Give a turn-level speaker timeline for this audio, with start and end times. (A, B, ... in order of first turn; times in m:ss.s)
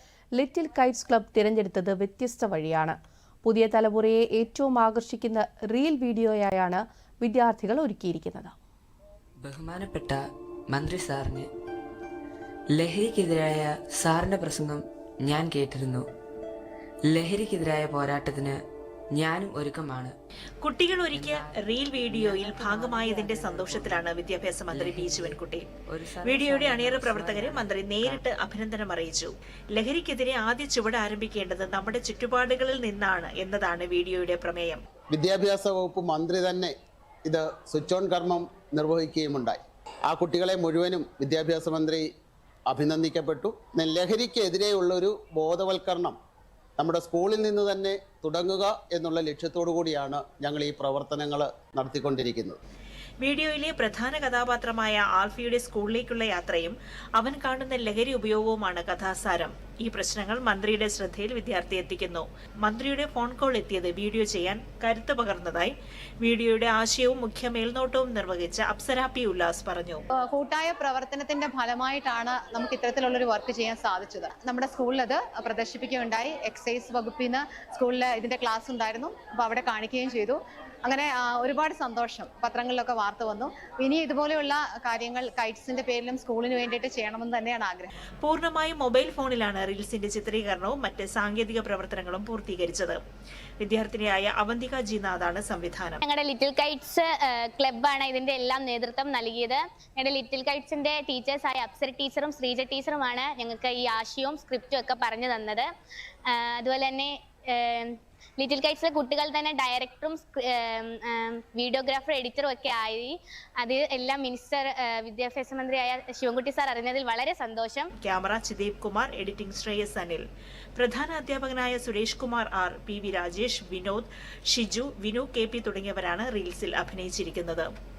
0:00.4-0:08.6 A
0:09.4-0:11.5 B
0:12.7-0:16.0 B
0:17.1-0:18.6 B
0:19.1-0:20.1 B
0:20.6-0:25.7 C
0:21.1-0:24.1 B
0:24.7-0:28.3 B
0:26.2-0:34.8 C
0:35.1-0:36.7 D
0:37.2-0:42.0 D
0:42.7-0:46.2 D
0:46.8-0:52.6 D
0:53.2-1:10.0 C
1:10.2-1:27.9 E
1:28.2-1:33.0 C
1:33.6-1:36.0 C
1:36.0-1:45.7 F
1:46.3-1:57.9 F
1:58.0-2:00.2 C
2:00.8-2:07.7 C